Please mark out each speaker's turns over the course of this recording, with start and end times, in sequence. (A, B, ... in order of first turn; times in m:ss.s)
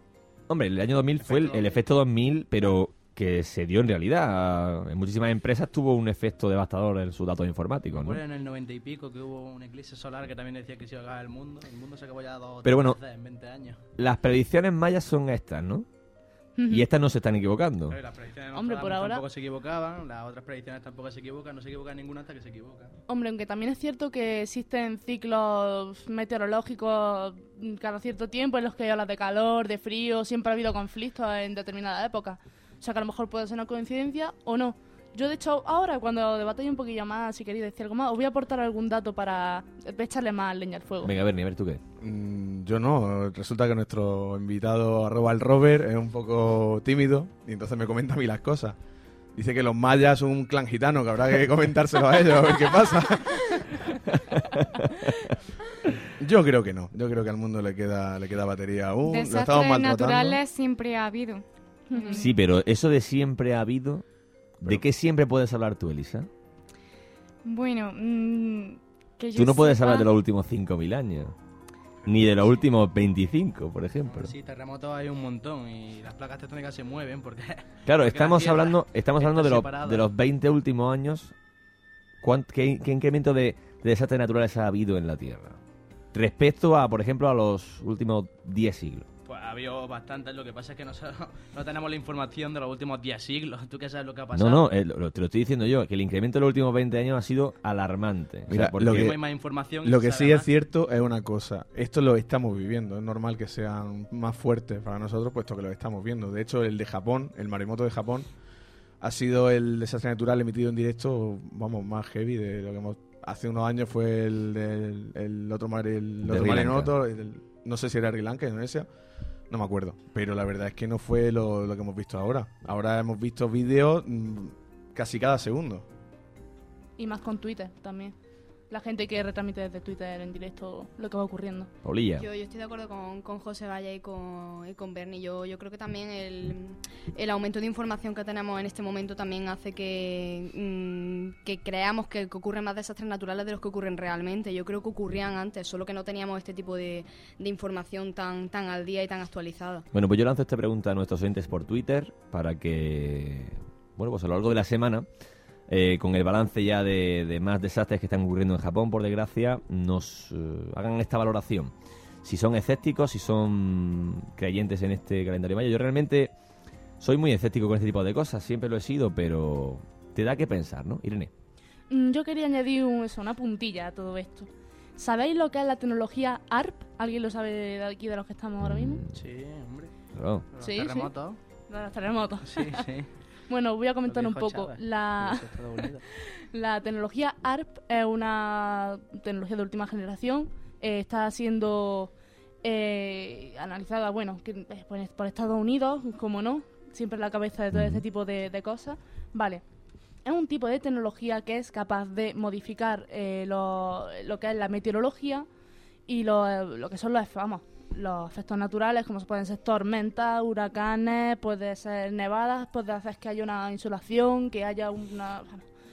0:00.5-0:08.2 A
0:01.2-0:01.8 B
0:07.9-0:13.8 B
0:12.6-0:13.0 A
0:14.0-0:15.8 A
0:16.6-0:16.8 C
0:16.7-0:18.0 A
0:17.9-0:22.9 B
0:18.5-0:19.2 C
0:23.1-0:41.1 C
0:41.0-0:41.8 A
0:42.0-0:48.8 D
0:49.3-0:53.7 D
0:56.2-1:00.4 D
0:59.1-1:01.4 E
1:01.9-1:02.2 C
1:01.9-1:02.3 F
1:02.1-1:04.0 A
1:04.6-1:06.3 A
1:07.4-1:10.1 E
1:09.3-1:11.3 A
1:12.0-1:12.6 B
1:12.0-1:14.3 A
1:14.0-1:20.1 B
1:17.8-1:21.3 A
1:22.2-1:25.6 A
1:26.1-1:29.1 A
1:29.2-1:34.6 B
1:34.3-1:39.2 A
1:38.5-1:39.2 D
1:38.9-1:40.5 B
1:39.8-1:48.3 D
1:49.0-1:58.9 D
1:56.2-1:56.9 A
1:59.5-2:05.8 D
2:07.0-2:08.1 C
2:08.7-2:11.7 C
2:11.8-2:12.3 A
2:12.2-2:29.8 F
2:29.9-2:35.0 A
2:35.7-2:41.7 A
2:42.2-2:46.3 A
2:47.0-2:51.3 A
2:51.9-2:59.0 C
2:58.6-2:59.2 A
2:59.1-2:59.9 B
3:00.1-3:00.4 A
3:00.5-3:01.4 B
3:00.6-3:01.1 C
3:01.7-3:02.8 C
3:02.4-3:03.1 B
3:03.5-3:05.6 C
3:04.0-3:06.0 B
3:06.4-3:12.1 C
3:12.6-3:19.6 C
3:17.7-3:18.0 A
3:20.2-3:25.5 C
3:26.1-3:35.6 C